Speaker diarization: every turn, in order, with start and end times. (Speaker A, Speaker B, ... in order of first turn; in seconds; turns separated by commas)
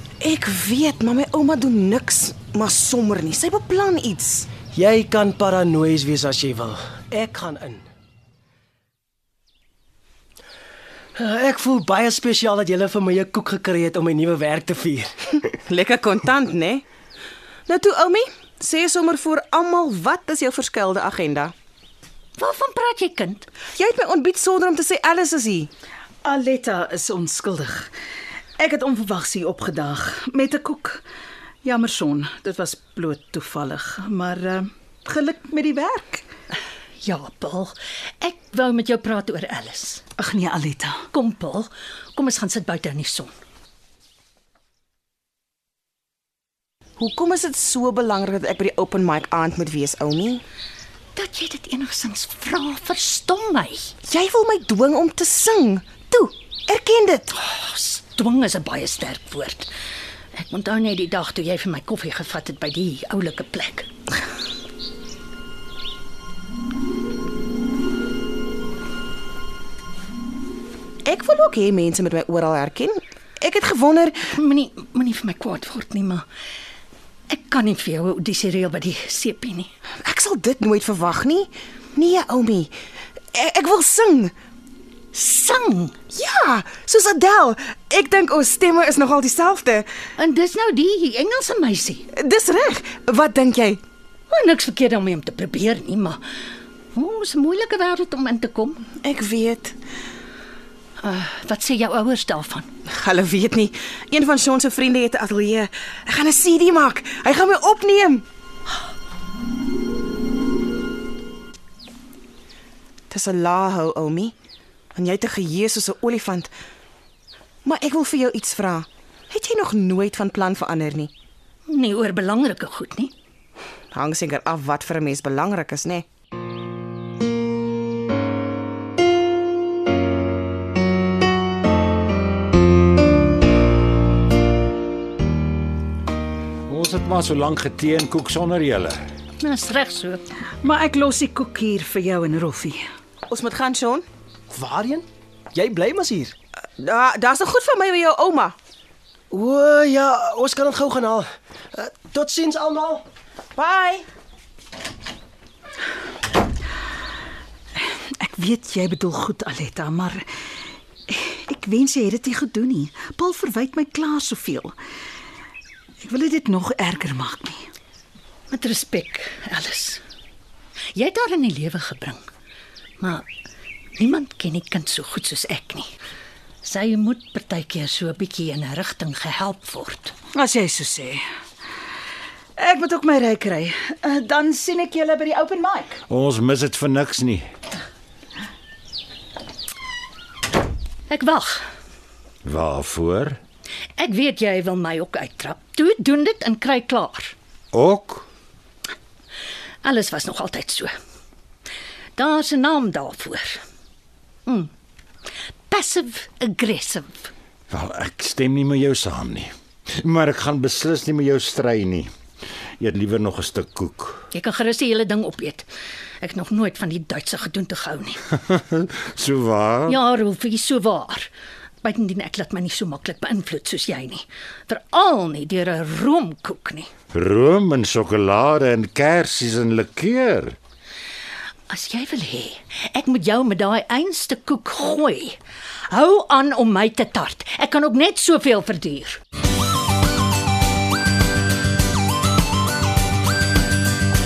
Speaker A: 0.2-4.5, Speaker B: 4.7-7.8, Speaker B: 11.2-15.1, Speaker A: 15.7-16.8, Speaker A: 17.7-21.5, Speaker C: 22.4-23.5, Speaker A: 23.8-25.7, Speaker D: 26.2-27.9, Speaker D: 28.6-31.0, Speaker D: 31.6-36.2, Speaker C: 37.0-40.0, Speaker D: 40.2-41.0, Speaker C: 41.1-43.3, Speaker A: 47.0-50.4, Speaker C: 51.1-53.9, Speaker A: 54.1-57.3, Speaker C: 57.3-59.7, Speaker C: 60.4-63.9, Speaker A: 71.0-74.2, Speaker C: 74.3-76.2, Speaker C: 77.3-79.7, Speaker A: 80.0-82.7, Speaker A: 83.3-84.3, Speaker C: 85.1-86.0, Speaker A: 86.1-89.9, Speaker C: 90.2-92.0, Speaker A: 92.1-93.8, Speaker C: 94.3-96.2, Speaker C: 96.9-98.9, Speaker A: 99.0-99.8, Speaker C: 101.0-102.7, Speaker A: 102.9-108.2, Speaker A: 113.1-114.3, Speaker A: 115.0-116.5, Speaker A: 117.7-121.1, Speaker C: 121.7-123.1, Speaker A: 123.9-126.1, Speaker E: 136.7-139.0, Speaker C: 139.4-140.2, Speaker D: 140.6-142.8, Speaker A: 143.3-144.1, Speaker B: 144.5-146.3, Speaker A: 146.8-148.6, Speaker B: 149.3-153.0, Speaker A: 153.6-154.1, Speaker D: 158.2-160.2, Speaker D: 161.1-164.8, Speaker D: 166.0-167.6, Speaker C: 168.5-170.0, Speaker C: 170.9-172.2, Speaker C: 173.0-173.3, Speaker C: 174.0-175.9, Speaker C: 176.6-180.2, Speaker D: 180.3-181.2, Speaker D: 182.6-186.0, Speaker E: 186.1-187.5, Speaker C: 191.1-191.6, Speaker E: 192.4-193.4, Speaker C: 194.0-197.3, Speaker E: 197.7-198.3, Speaker C: 199.8-200.9, Speaker C: 202.2-203.6, Speaker C: 205.7-207.3, Speaker E: 207.7-212.1, Speaker E: 212.8-214.2, Speaker C: 214.3-215.7, Speaker C: 216.2-218.2, Speaker E: 218.4-220.0, Speaker C: 219.9-221.3, Speaker C: 221.8-226.9, Speaker E: 227.1-230.6, Speaker C: 231.7-235.4, Speaker C: 235.9-239.2